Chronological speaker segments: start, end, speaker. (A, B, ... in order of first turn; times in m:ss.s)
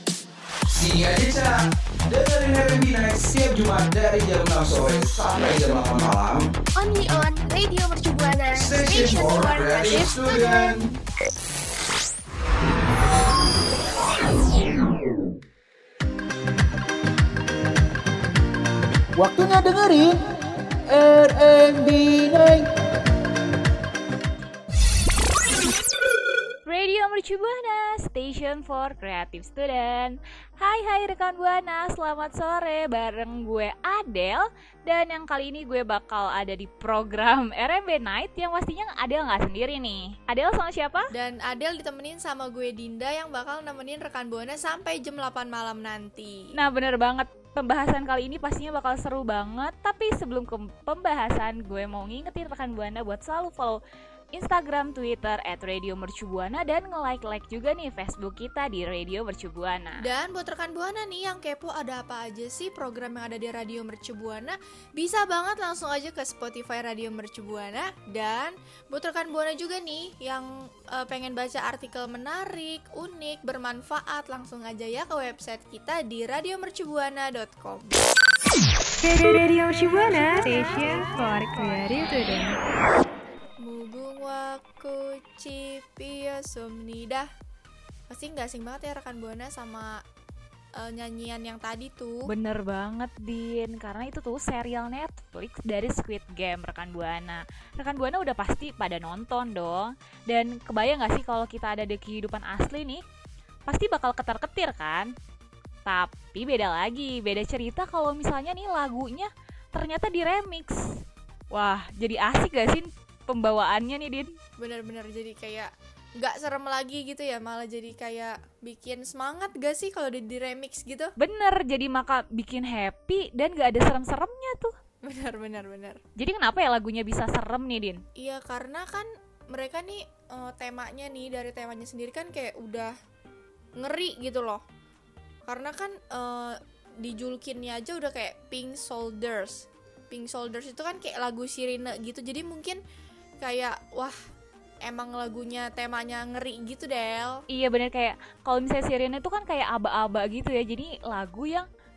0:00.7-0:01.5 A
0:02.0-0:06.5 A
0:06.8-0:07.2 B
0:08.5-0:10.8 B
0:08.5-0:10.9 A
0:19.2-0:20.3 C
0:20.9-0:22.7 C
0:26.6-0:41.1 D
0:41.1-0:46.4 E
0:46.5-0:53.8 D
0:54.4-1:00.0 D
1:00.0-1:18.0 E
1:19.0-1:22.6 F
1:23.6-1:27.3 E
1:28.1-1:29.9 E
1:30.8-1:32.3 E
1:32.3-1:43.0 D
1:43.7-1:45.1 D
1:45.9-1:50.8 D
1:51.5-1:54.4 D
1:54.6-2:01.1 E
2:01.2-2:04.7 D
2:05.0-2:06.0 E
2:06.2-2:08.0 D
2:08.2-2:12.9 E
2:13.8-2:14.6 E
2:15.5-2:22.8 E
2:23.4-2:24.2 E
2:24.9-2:27.4 E
2:27.5-2:31.7 D